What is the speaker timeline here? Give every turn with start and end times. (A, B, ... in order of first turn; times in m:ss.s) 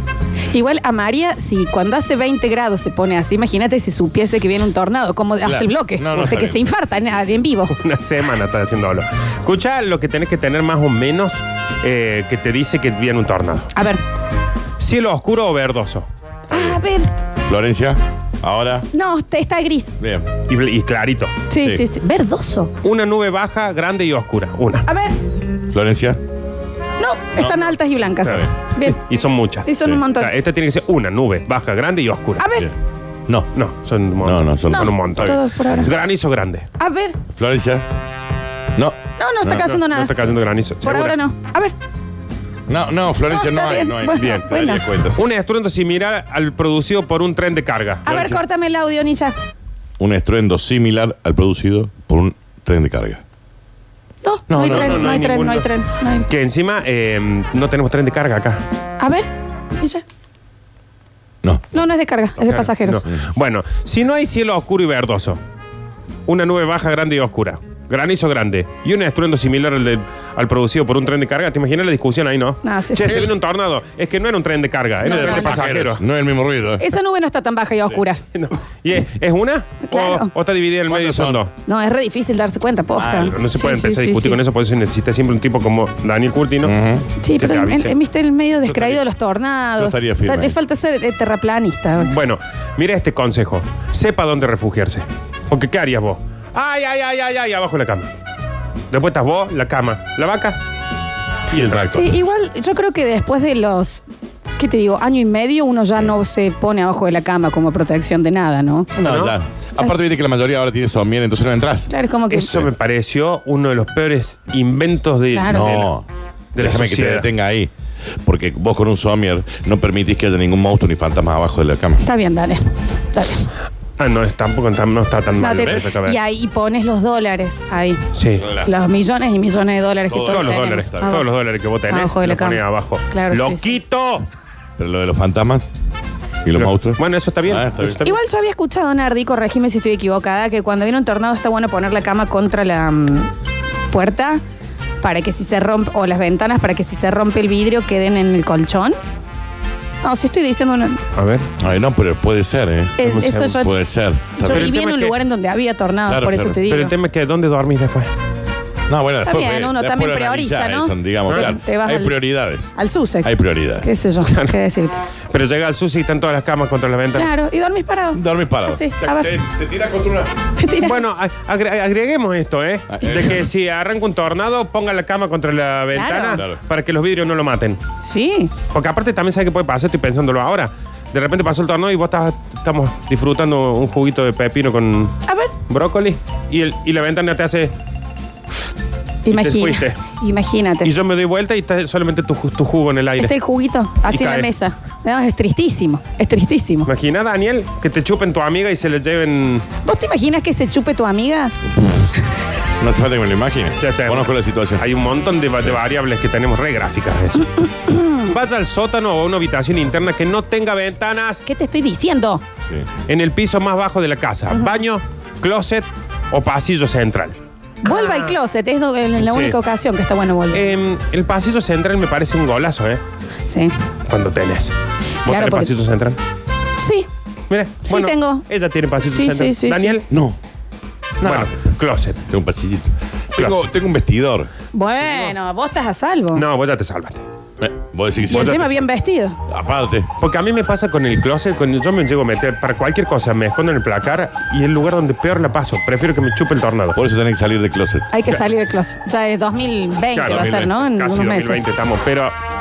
0:00.5-0:07.8 A
0:05.4-0:07.3 B
0:07.7-0:13.7 C
0:13.7-0:14.0 A
0:14.8-0:16.8 C
0:16.5-0:17.1 A
0:17.4-0:18.9 B
0:18.9-0:20.0 A
0:20.0-0:20.3 B
0:20.5-0:21.3 C
0:21.5-0:22.7 A
0:22.8-0:24.9 C
0:24.9-0:25.2 A
0:25.7-0:26.2 B
0:27.0-0:29.0 A
0:27.4-0:28.5 B
0:28.2-0:32.4 C
0:29.7-0:30.3 A
0:32.4-0:32.7 A
0:33.6-0:36.7 C
0:34.2-0:35.9 B
0:34.7-0:36.0 A
0:36.8-0:37.2 A
0:37.3-0:37.9 B
0:39.2-0:40.1 A
0:39.4-0:41.2 C
0:40.8-0:41.7 A
0:42.7-0:45.2 B
0:43.3-0:44.8 A
0:44.1-0:48.0 C
0:48.0-0:49.4 A
0:48.1-0:48.4 B
0:50.0-0:53.2 B
0:54.2-0:56.3 A
0:54.5-0:55.3 B
0:54.6-0:55.7 C
0:56.3-0:58.6 C
0:59.0-1:00.0 A
1:01.4-1:01.8 B
1:01.7-1:03.0 A
1:02.4-1:05.4 C
1:06.3-1:16.0 C
1:12.6-1:13.3 A
1:15.0-1:16.8 B
1:15.0-1:15.7 A
1:16.8-1:18.2 A
1:18.3-1:21.5 C
1:19.8-1:20.3 A
1:20.9-1:21.4 B
1:21.6-1:24.4 A
1:23.0-1:23.4 B
1:23.2-1:26.8 C
1:26.6-1:27.1 B
1:27.2-1:32.1 A
1:27.4-1:28.0 C
1:28.6-1:29.0 B
1:29.8-1:30.6 B
1:32.0-1:38.1 C
1:38.9-1:40.6 C
1:41.5-1:41.9 C
1:41.5-1:42.1 B
1:41.9-1:44.0 A
1:44.6-1:48.9 A
1:49.0-1:51.9 B
1:49.0-1:49.4 C
1:51.9-1:52.7 A
1:52.3-1:55.9 C
1:55.3-1:55.9 A
1:55.5-1:56.1 B
1:56.6-1:57.3 C
1:56.6-1:57.7 B
1:58.2-2:02.0 B
2:02.0-2:03.5 A
2:04.0-2:06.2 C
2:05.4-2:08.0 A
2:05.6-2:05.9 B
2:08.1-2:08.5 C
2:08.4-2:08.7 B
2:08.6-2:11.3 A
2:10.1-2:11.2 B
2:10.2-2:14.3 C
2:11.9-2:13.8 A
2:14.8-2:15.7 B
2:16.4-2:18.0 B
2:16.6-2:18.2 C
2:18.0-2:23.3 A
2:23.9-2:24.4 A
2:25.0-2:29.0 A
2:30.0-2:31.0 A
2:31.2-2:31.5 C
2:31.6-2:33.0 B
2:33.0-2:33.7 A
2:33.0-2:33.6 C
2:33.5-2:34.8 B
2:34.4-2:35.2 C
2:34.4-2:37.0 A
2:36.1-2:36.6 B
2:36.7-2:38.1 C
2:38.9-2:42.7 B
2:39.2-2:42.2 A
2:42.7-2:45.0 A
2:43.2-2:43.9 B
2:44.2-2:44.6 C
2:45.3-2:47.3 C
2:47.2-2:49.3 A
2:48.1-2:50.3 B
2:50.6-2:51.0 A
2:50.8-2:57.8 C
2:52.9-2:53.5 B
2:55.9-2:56.4 A
2:58.0-2:58.5 A
2:58.7-3:05.1 C
3:05.3-3:05.5 A
3:05.7-3:07.7 C
3:09.2-3:10.9 A
3:09.3-3:10.0 C
3:10.8-3:13.3 C
3:13.2-3:16.9 A
3:14.1-3:14.5 C
3:16.9-3:19.7 C
3:19.8-3:21.6 A
3:22.8-3:24.8 B
3:23.8-3:31.5 C
3:31.5-3:32.4 A
3:33.1-3:38.4 C
3:37.8-3:40.8 A
3:39.2-3:39.6 C
3:40.5-3:43.0 C
3:43.5-3:43.7 A
3:44.1-3:46.2 C
3:45.3-3:45.7 A
3:46.8-3:47.1 A
3:47.5-3:50.1 C
3:47.9-3:48.5 A
3:49.0-3:50.0 A
3:50.1-3:50.4 B
3:51.2-3:51.6 B
3:51.2-3:52.2 C
3:52.3-3:54.5 B
3:53.4-3:53.6 C
3:54.7-3:56.4 A
3:55.0-3:55.4 C
3:56.3-3:57.2 C
3:57.6-3:58.8 B
3:58.3-3:59.4 A
3:58.4-3:58.8 C
3:59.5-4:00.1 B
4:00.2-4:07.0 C
4:07.0-4:08.1 B
4:08.1-4:11.8 A
4:10.1-4:12.3 C
4:10.3-4:10.7 B